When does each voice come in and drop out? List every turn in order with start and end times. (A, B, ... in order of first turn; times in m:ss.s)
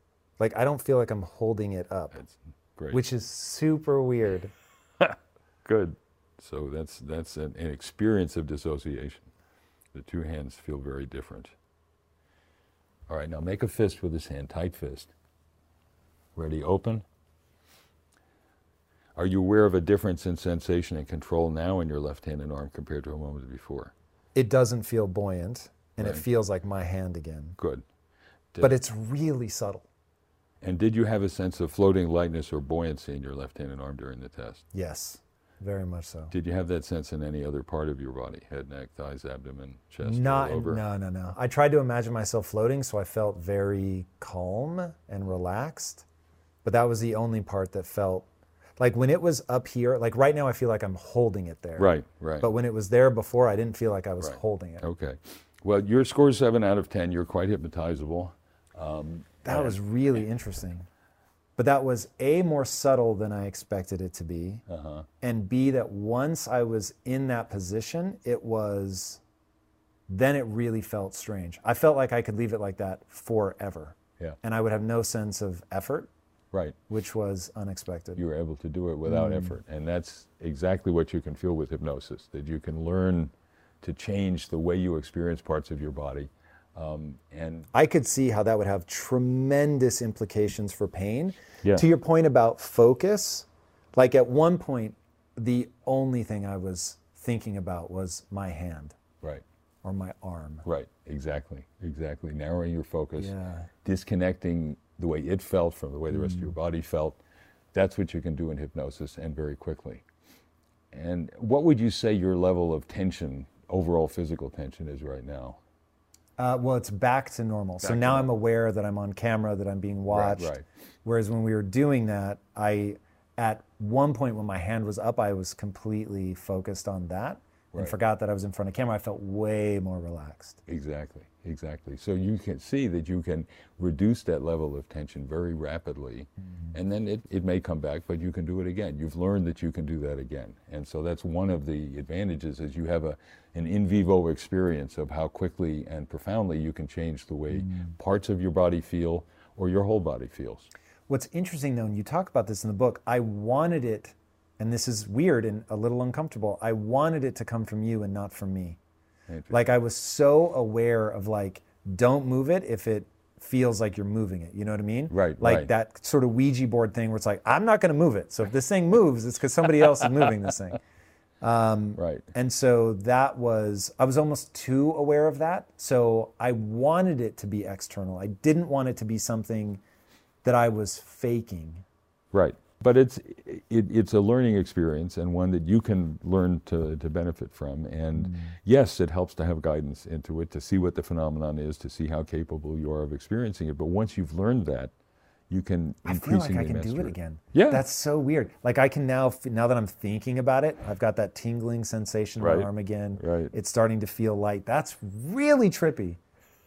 0:00.4-0:02.2 A
0:02.1-0:03.0 B
0:02.9-0:04.5 A
0:05.0-0:09.3 B
0:09.9-0:11.5 B
0:13.1-0:15.1 B
0:16.3-0:17.0 B
0:19.2-0:23.9 B
0:24.3-0:27.6 A
0:27.6-0:27.8 B
0:28.6-0:29.9 A
0:30.6-0:34.6 B
0:34.7-0:36.3 A
0:36.3-0:40.8 B
0:40.0-0:46.0 A
0:46.6-0:48.3 A
0:48.8-0:54.9 A
0:51.8-0:52.5 B
0:54.2-0:59.8 B
0:59.4-1:00.9 A
1:01.6-1:04.6 A
1:04.7-1:05.1 B
1:05.2-1:09.2 A
1:10.1-1:16.1 A
1:16.5-1:16.8 B
1:16.9-1:18.2 A
1:18.2-1:27.7 B
1:19.1-1:19.5 A
1:27.7-1:39.0 A
1:39.8-1:40.6 A
1:40.6-1:47.2 B
1:43.2-1:43.7 A
1:46.2-1:46.5 A
1:47.7-1:50.0 B
1:50.9-1:55.6 B
1:56.4-2:00.5 A
1:57.8-1:58.3 B
2:00.1-2:00.6 B
2:01.0-2:10.6 A
2:10.7-2:30.7 B
2:31.1-2:38.8 A
2:39.3-2:39.7 B
2:39.5-2:50.8 A
2:45.1-2:45.7 B
2:51.4-2:59.8 A
2:52.0-2:52.2 B
3:00.4-3:01.8 A
3:02.3-3:14.9 B
3:08.2-3:08.6 A
3:15.5-3:17.8 B
3:16.0-3:26.2 A
3:22.4-3:23.5 B